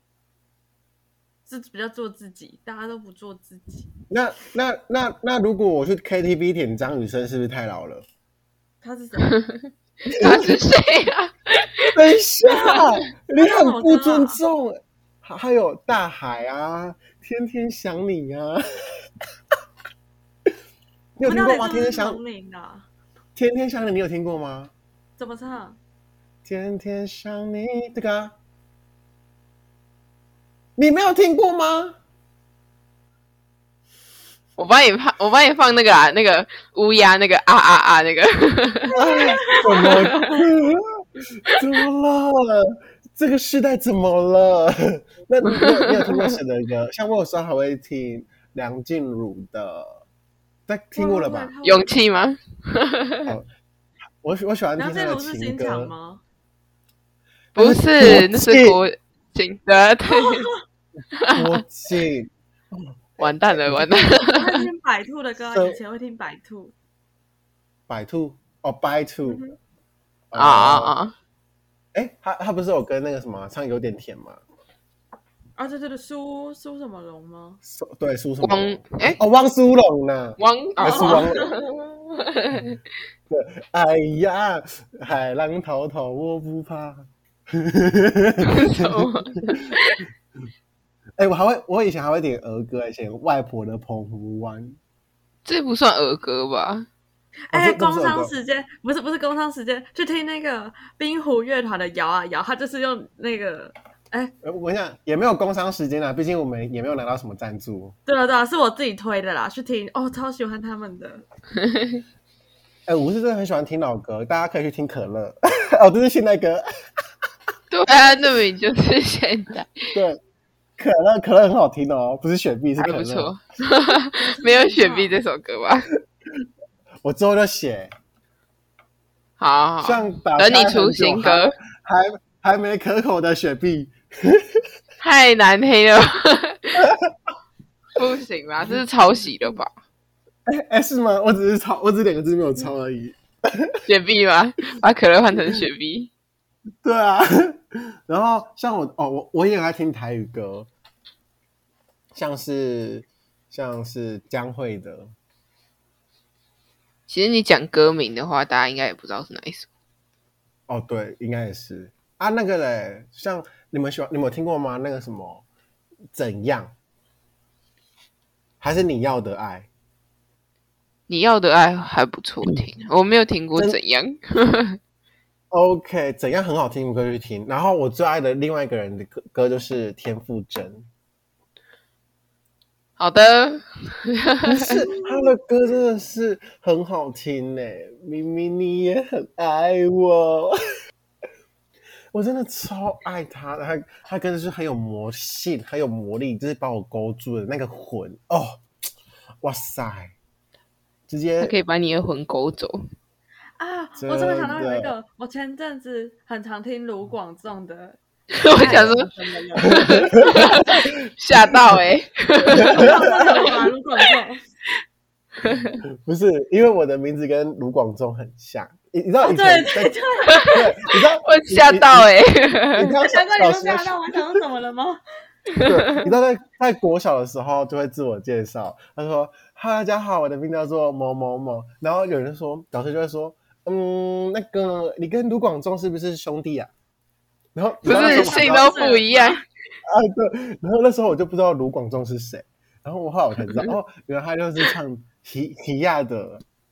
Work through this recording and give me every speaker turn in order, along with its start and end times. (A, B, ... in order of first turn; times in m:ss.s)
0:01.5-0:03.9 A
0:04.1-0:08.0 B
0:08.8-0:09.4 A
0:09.3-0:09.6 C
0:10.1-0:10.6 B
0:10.1-0:12.0 C
0:11.9-0:18.6 B
0:12.5-0:12.8 A
0:13.4-0:14.4 A
0:21.2-0:22.2 B
0:21.2-0:22.9 A
0:23.4-0:24.7 B
0:25.2-0:25.8 A
0:26.4-0:28.3 B
0:30.8-0:32.0 B
0:34.6-0:40.3 C
0:38.9-0:40.2 A
0:38.9-0:50.0 B
0:45.5-0:46.3 C
0:50.7-0:51.5 B
0:50.9-0:51.9 A
0:51.6-0:53.4 C
0:54.2-0:55.9 B
0:54.8-0:56.2 A
0:57.5-0:58.8 B
0:57.5-1:00.5 C
1:00.1-1:00.6 A
1:01.1-1:01.6 C
1:01.3-1:04.0 B
1:03.2-1:04.6 C
1:04.2-1:06.7 A
1:05.5-1:05.8 B
1:07.9-1:09.4 B
1:09.3-1:09.6 A
1:10.3-1:10.9 B
1:10.4-1:11.1 C
1:11.9-1:14.4 B
1:15.6-1:17.6 A
1:17.6-1:21.5 B
1:18.4-1:19.2 C
1:20.4-1:22.8 C
1:20.8-1:21.5 A
1:23.3-1:29.8 B
1:28.4-1:30.0 C
1:31.2-1:34.8 B
1:35.4-1:36.9 C
1:37.5-1:44.3 A
1:37.5-1:38.3 B
1:44.4-1:47.9 B
1:48.0-1:51.2 A
1:51.5-1:52.0 C
1:52.8-1:56.6 B
1:57.7-1:59.9 C
1:59.9-2:00.2 B
2:00.8-2:03.3 B
2:02.8-2:05.9 C
2:04.0-2:05.1 A
2:07.0-2:07.9 B
2:09.4-2:11.5 C
2:09.8-2:14.4 B
2:15.0-2:16.9 C
2:16.8-2:17.1 B
2:18.0-2:19.7 C
2:20.5-2:23.8 B
2:23.9-2:26.1 C
2:26.8-2:30.7 B
2:32.1-2:35.1 B
2:37.1-2:39.7 C
2:40.7-2:45.4 B
2:46.1-2:46.7 B
2:48.6-2:49.7 B
2:51.1-2:54.8 C
2:55.5-3:00.9 B
3:03.0-3:04.8 C
3:04.4-3:10.6 B
3:12.1-3:18.6 B
3:19.4-3:20.1 B
3:21.1-3:21.5 B
3:21.4-3:22.8 C
3:23.6-3:30.4 A
3:24.0-3:24.9 B
3:28.3-3:33.6 C
3:28.6-3:28.9 B
3:29.8-3:30.9 B
3:32.5-3:34.4 A
3:32.6-3:33.4 B
3:35.4-3:35.8 C
3:36.0-3:42.1 B
3:39.2-3:40.9 A
3:40.3-3:40.6 C
3:41.2-3:42.9 C
3:42.8-3:44.4 B
3:43.0-3:45.0 A
3:45.6-3:46.1 C
3:45.6-3:56.7 B
3:57.5-3:58.8 B
3:57.8-3:59.4 A
3:57.8-3:59.4 C
3:59.8-4:06.4 B